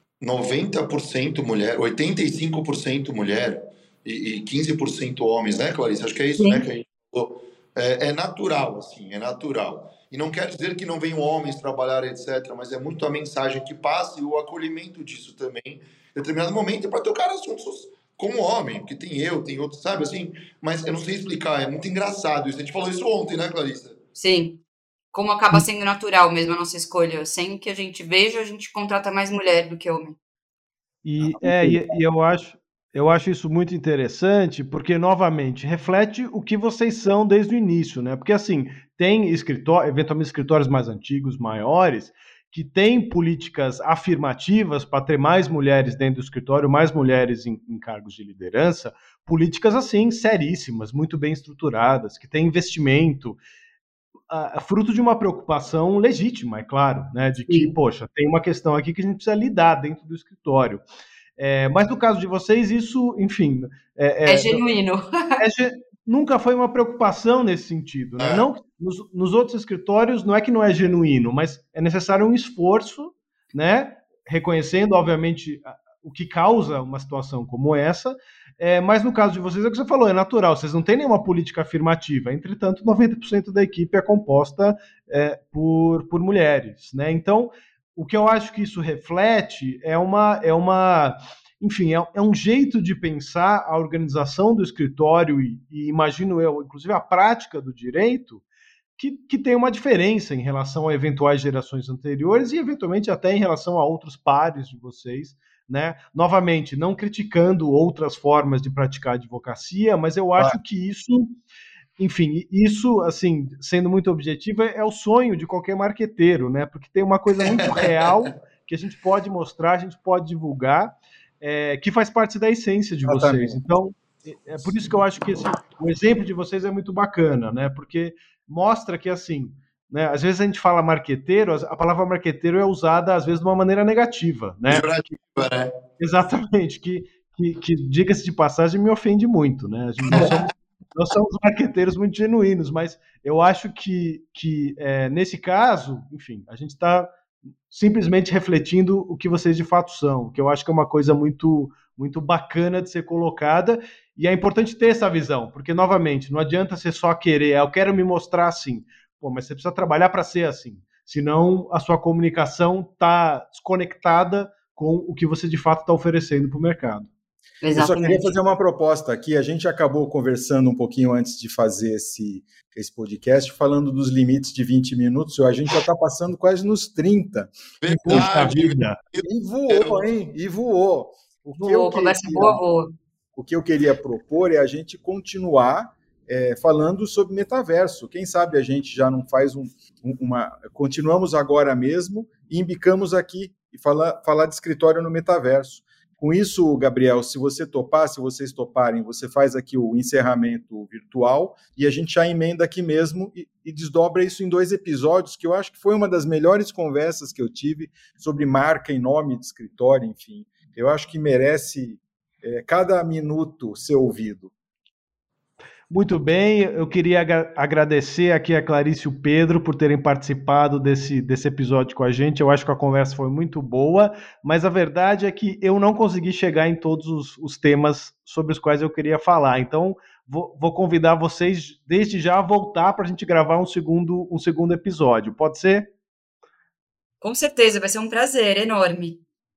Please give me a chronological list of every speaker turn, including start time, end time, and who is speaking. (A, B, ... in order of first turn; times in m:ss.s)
0:00.2-0:24.0 A
0:06.4-0:06.6 B
0:24.2-0:24.6 B
0:25.1-0:30.2 B
0:31.0-0:53.4 C
0:31.4-0:31.8 A
0:54.3-1:00.8 C
0:57.5-0:57.7 B
1:01.4-1:04.6 C
1:04.2-1:05.4 B
1:05.4-1:38.4 C
1:08.2-1:08.5 A
1:39.0-1:51.3 C
1:52.0-2:14.9 C
2:03.1-2:03.6 D
2:14.7-2:15.7 A
2:16.0-2:27.1 C
2:27.7-2:47.1 C
2:47.6-2:48.3 B
2:47.7-2:57.5 D
2:57.8-3:00.0 A
2:57.9-2:59.0 C
2:59.2-3:02.6 D
3:01.6-3:02.9 B
3:03.4-3:34.5 D
3:35.9-3:55.9 C
3:57.2-3:59.2 B